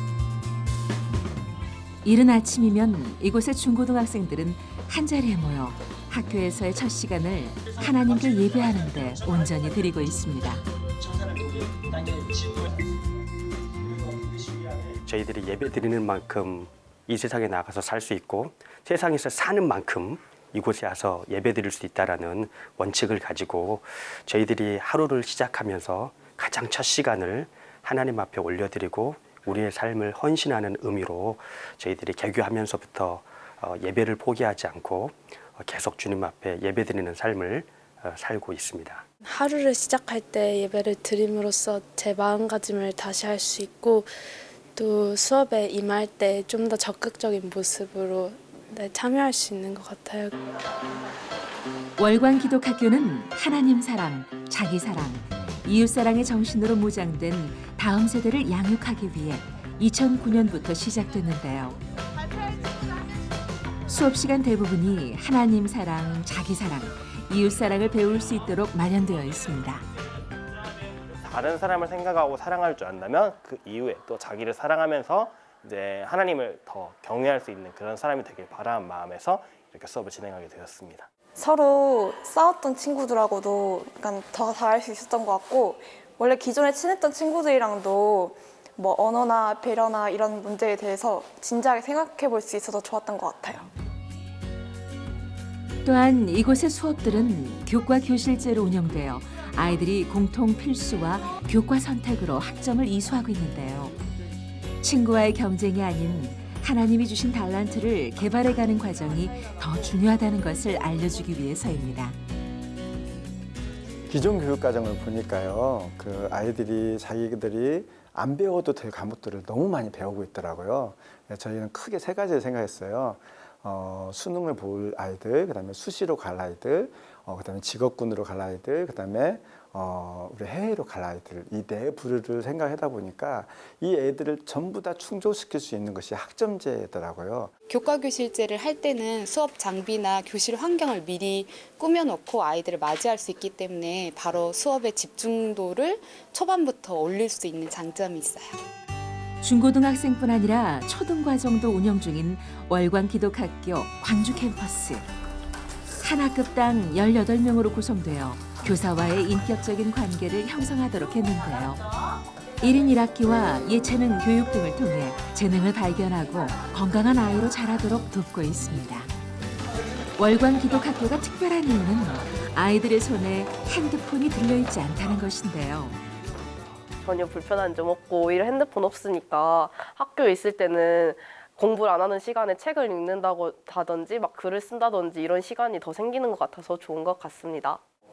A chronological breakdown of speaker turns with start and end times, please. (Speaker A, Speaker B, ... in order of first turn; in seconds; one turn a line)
Speaker A: 2.0-10.6
Speaker B: 15.1-39.0
Speaker C: 39.2-50.4
Speaker A: 52.0-61.8
Speaker A: 63.9-69.8
Speaker D: 71.2-81.1
Speaker E: 81.3-93.7
Speaker A: 95.8-103.9
Speaker A: 104.8-112.2
Speaker F: 114.1-137.5
Speaker G: 137.7-148.6
Speaker A: 149.4-155.1
Speaker A: 156.0-161.8
Speaker A: 162.6-169.1
Speaker A: 170.2-176.0
Speaker H: 177.0-187.8